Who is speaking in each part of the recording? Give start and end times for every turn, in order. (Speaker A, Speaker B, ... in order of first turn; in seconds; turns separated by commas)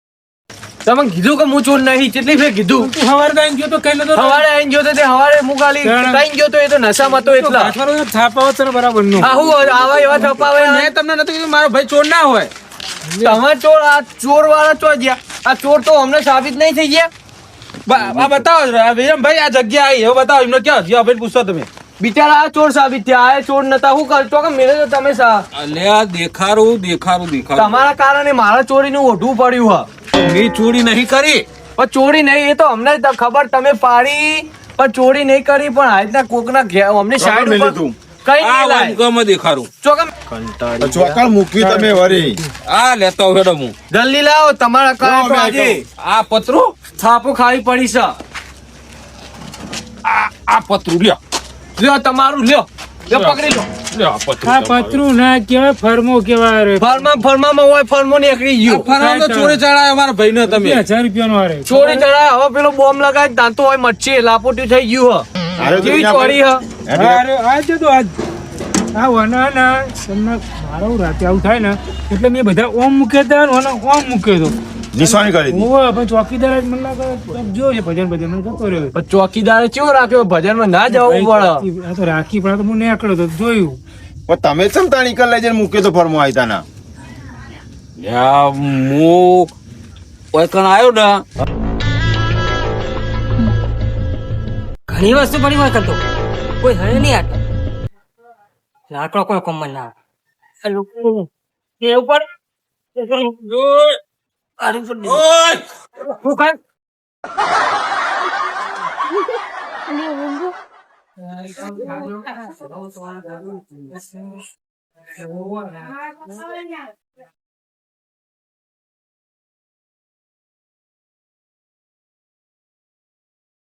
Speaker A: 0.8-2.9, Speaker B: 2.8-4.5, Speaker A: 4.1-7.8, Speaker B: 5.8-6.2, Speaker B: 7.2-9.4, Speaker A: 9.2-10.9, Speaker C: 10.5-12.5, Speaker B: 13.1-13.4, Speaker A: 13.2-17.1, Speaker C: 17.9-21.7, Speaker A: 22.0-25.4, Speaker D: 25.5-27.8, Speaker A: 27.6-29.9, Speaker D: 30.1-31.5, Speaker A: 31.8-39.0, Speaker E: 37.2-38.0, Speaker D: 38.4-39.7, Speaker A: 39.8-41.2, Speaker E: 40.8-42.4, Speaker B: 41.6-42.5, Speaker D: 42.7-43.7, Speaker A: 43.9-45.8, Speaker E: 45.0-45.8, Speaker D: 46.0-46.7, Speaker A: 47.0-48.2, Speaker D: 50.0-51.2, Speaker A: 51.8-53.7, Speaker D: 53.1-55.0, Speaker B: 54.4-56.9, Speaker A: 56.8-58.9, Speaker C: 58.7-60.8, Speaker B: 58.9-59.6, Speaker B: 60.4-62.1, Speaker A: 61.7-65.3, Speaker E: 65.6-67.2, Speaker A: 65.8-66.6, Speaker B: 66.9-68.1, Speaker B: 69.0-78.9, Speaker E: 74.9-75.7, Speaker A: 78.9-81.7, Speaker B: 80.9-83.8, Speaker E: 84.3-86.6, Speaker D: 88.0-89.5, Speaker D: 90.3-91.2, Speaker F: 94.9-96.0, Speaker F: 96.6-97.4, Speaker F: 98.9-99.9, Speaker F: 100.6-101.3, Speaker F: 101.8-102.3, Speaker F: 103.0-103.3, Speaker D: 103.5-104.0, Speaker F: 104.6-105.2, Speaker D: 105.0-105.6, Speaker F: 106.0-106.6, Speaker B: 111.7-112.0, Speaker B: 115.2-115.8